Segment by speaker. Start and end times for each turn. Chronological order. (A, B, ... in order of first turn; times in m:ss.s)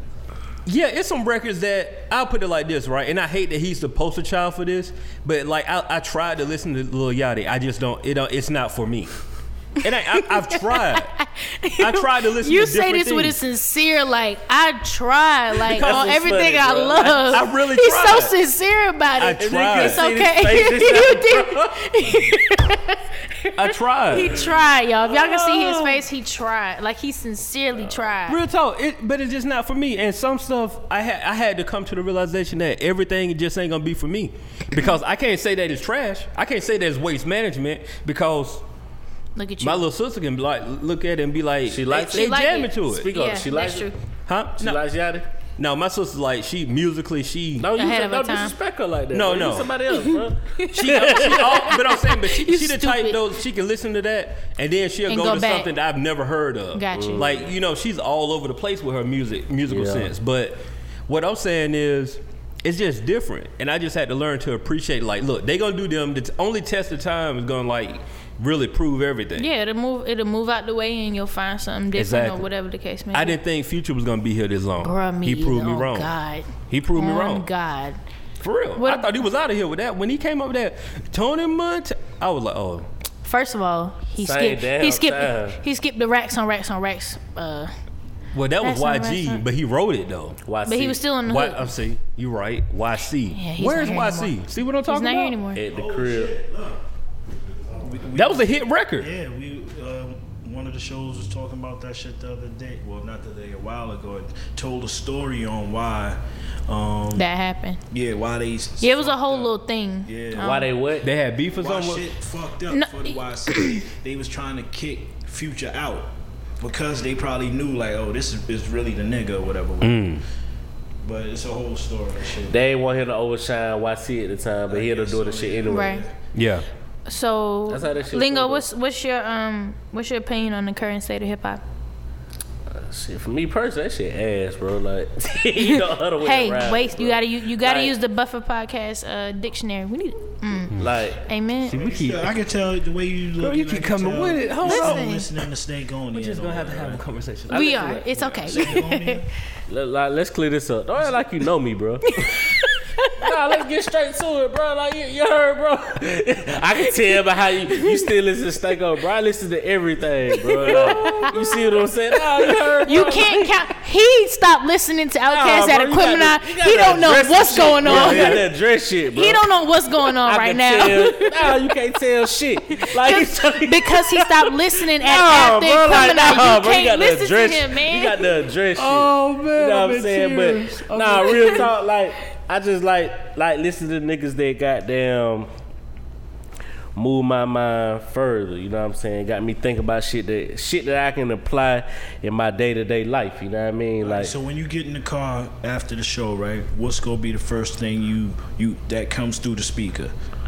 0:00.6-0:09.1 A
0:09.8-0:11.1 A
0:10.1-0:28.4 B
0:11.8-0:13.4 A
0:15.7-0:16.2 A
0:15.7-0:17.4 C
0:17.3-0:18.4 A
0:19.2-0:20.0 A
0:19.4-0:22.2 C
0:23.6-0:24.4 A
0:25.1-0:26.0 C
0:28.3-0:38.6 A
0:39.4-0:39.8 B
0:39.6-0:43.1 A
0:41.7-0:43.9 C
0:42.1-0:44.0 B
0:44.3-0:44.8 A
0:44.6-0:45.3 C
0:45.6-0:47.7 A
0:47.6-0:51.7 C
0:47.8-0:48.5 B
0:49.1-0:49.8 A
0:49.9-0:53.2 B
0:50.7-1:09.5 A
0:55.1-0:55.7 B
0:56.7-0:57.3 B
0:56.9-0:57.3 C
0:59.7-1:00.1 C
1:09.4-1:13.4 B
1:11.9-1:12.5 A
1:13.1-1:16.1 A
1:14.8-1:18.0 B
1:16.7-1:17.5 A
1:18.4-1:22.9 A
1:18.8-1:19.2 B
1:23.2-1:27.7 B
1:24.2-1:25.6 C
1:28.3-1:30.4 A
1:28.6-1:29.4 B
1:30.4-1:31.0 C
1:30.6-1:31.6 B
1:31.2-1:35.4 A
1:33.3-1:35.6 B
1:35.6-1:36.3 C
1:35.7-1:36.8 D
1:37.8-1:47.3 D
1:38.1-1:39.1 A
1:47.1-1:47.8 B
1:47.9-1:49.5 D
1:48.8-1:50.7 B
1:50.0-1:50.5 D
1:50.4-1:51.1 C
1:51.0-1:52.1 A
1:51.6-2:00.1 D
1:52.7-1:53.8 B
1:59.8-2:00.2 A
2:01.0-2:02.6 D
2:02.5-2:06.0 C
2:04.7-2:06.1 D
2:05.7-2:06.0 B
2:06.3-2:06.6 A
2:07.1-2:11.6 B
2:07.7-2:08.6 C
2:12.7-2:17.9 C
2:15.6-2:21.8 B
2:20.8-2:21.2 C
2:21.7-2:22.3 A
2:21.7-2:27.0 D
2:23.4-2:25.2 A
2:24.6-2:25.3 B
2:26.1-2:27.9 A
2:27.5-2:28.7 C
2:27.5-2:29.2 B
2:28.4-2:29.3 D
2:29.7-2:32.0 C
2:32.0-2:33.3 B
2:33.2-2:43.5 C
2:37.8-2:38.1 B
2:40.3-2:41.6 B
2:40.7-2:41.2 A
2:42.8-2:48.4 B
2:45.3-2:49.4 C
2:47.8-2:48.4 A
2:49.1-2:51.6 B
2:50.1-3:05.5 C
2:52.7-2:58.3 B
2:58.8-3:01.7 A
3:06.9-3:14.3 C
3:14.0-3:20.1 D